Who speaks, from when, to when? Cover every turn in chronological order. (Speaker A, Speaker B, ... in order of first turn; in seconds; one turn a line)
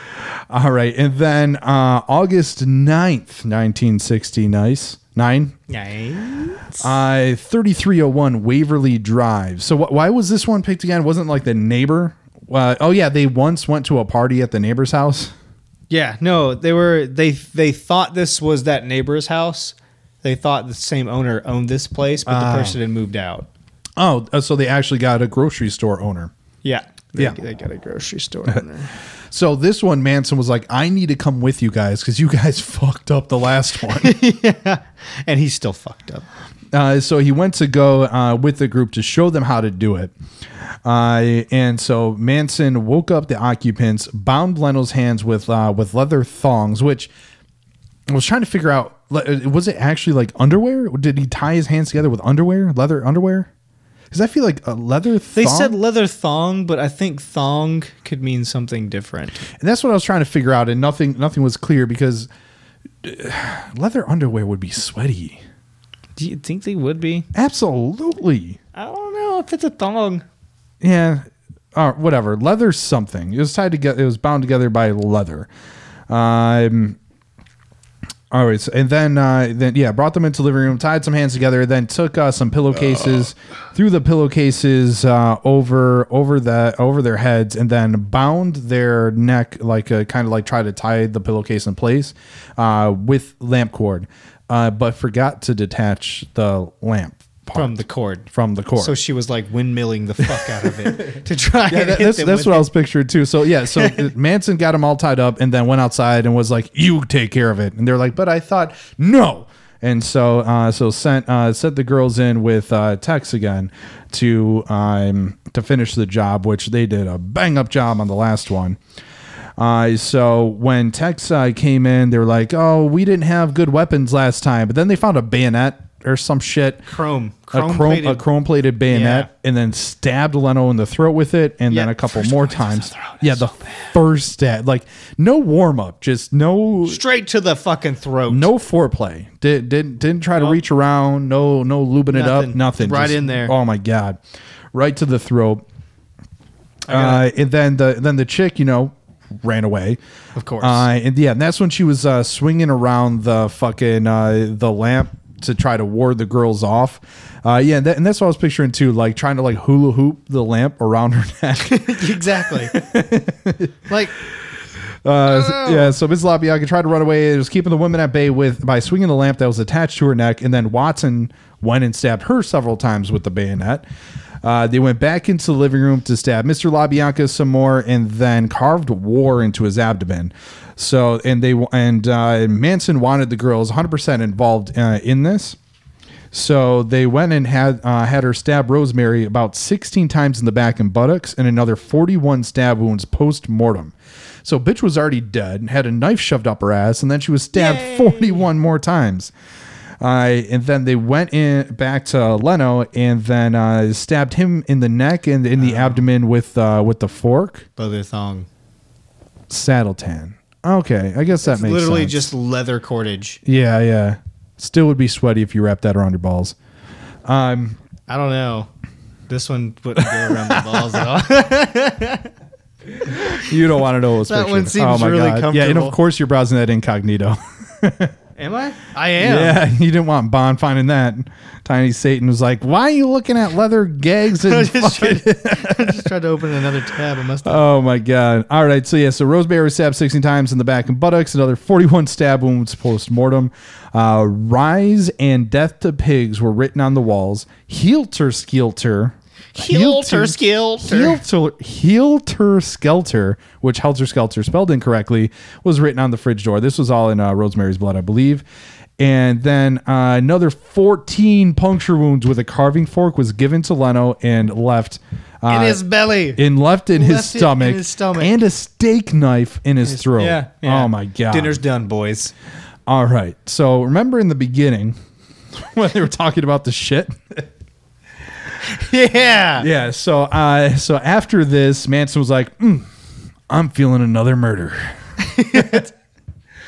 Speaker A: 0.5-5.5
Speaker B: 5.7-6.9
Speaker A: 6.8-15.3
Speaker B: 15.9-23.5
Speaker A: 22.2-22.8
Speaker A: 24.0-26.3
Speaker B: 26.6-28.9
Speaker A: 29.3-34.1
Speaker B: 33.9-36.2
Speaker A: 36.7-40.1
Speaker A: 40.8-47.1
Speaker A: 48.1-53.5
Speaker A: 54.1-55.8
Speaker B: 55.3-59.4
Speaker A: 59.6-62.3
Speaker A: 63.0-65.4
Speaker B: 66.2-67.3
Speaker A: 67.3-68.6
Speaker B: 68.7-70.2
Speaker A: 70.8-75.5
Speaker A: 76.1-77.0
Speaker A: 78.3-97.8
Speaker B: 97.5-98.2
Speaker A: 98.3-99.0
Speaker B: 98.8-102.7
Speaker A: 100.3-118.8
Speaker B: 103.7-104.0
Speaker A: 119.6-126.9
Speaker B: 126.9-128.2
Speaker A: 127.5-137.0
Speaker B: 128.9-129.3
Speaker B: 131.7-133.9
Speaker B: 136.8-138.5
Speaker A: 138.3-144.2
Speaker B: 142.1-143.5
Speaker A: 144.7-145.6
Speaker B: 146.9-147.2
Speaker A: 146.9-150.0
Speaker B: 150.3-150.9
Speaker A: 150.6-162.1
Speaker B: 161.6-162.8
Speaker A: 162.7-163.8
Speaker B: 163.9-164.1
Speaker A: 165.0-173.9
Speaker B: 165.2-165.9
Speaker A: 174.4-185.6
Speaker A: 186.3-199.3
Speaker B: 197.5-198.4
Speaker A: 200.0-207.7
Speaker B: 205.6-206.1
Speaker B: 207.8-208.5
Speaker A: 209.5-212.3
Speaker B: 211.4-213.4
Speaker A: 213.4-216.6
Speaker A: 217.2-217.8
Speaker B: 218.1-218.7
Speaker B: 219.3-222.3
Speaker A: 220.0-221.0
Speaker B: 223.0-223.5
Speaker A: 223.1-228.1
Speaker B: 224.2-226.0
Speaker B: 228.4-229.6
Speaker A: 229.2-236.1
Speaker B: 234.4-237.6
Speaker A: 237.4-258.4
Speaker B: 249.5-251.2
Speaker A: 259.0-265.8
Speaker B: 265.5-268.3
Speaker A: 266.4-271.6
Speaker B: 269.8-272.3
Speaker A: 272.9-275.0
Speaker A: 275.5-277.5
Speaker B: 278.6-279.7
Speaker A: 279.6-282.9
Speaker A: 283.5-284.9
Speaker B: 285.2-285.9
Speaker A: 285.5-285.8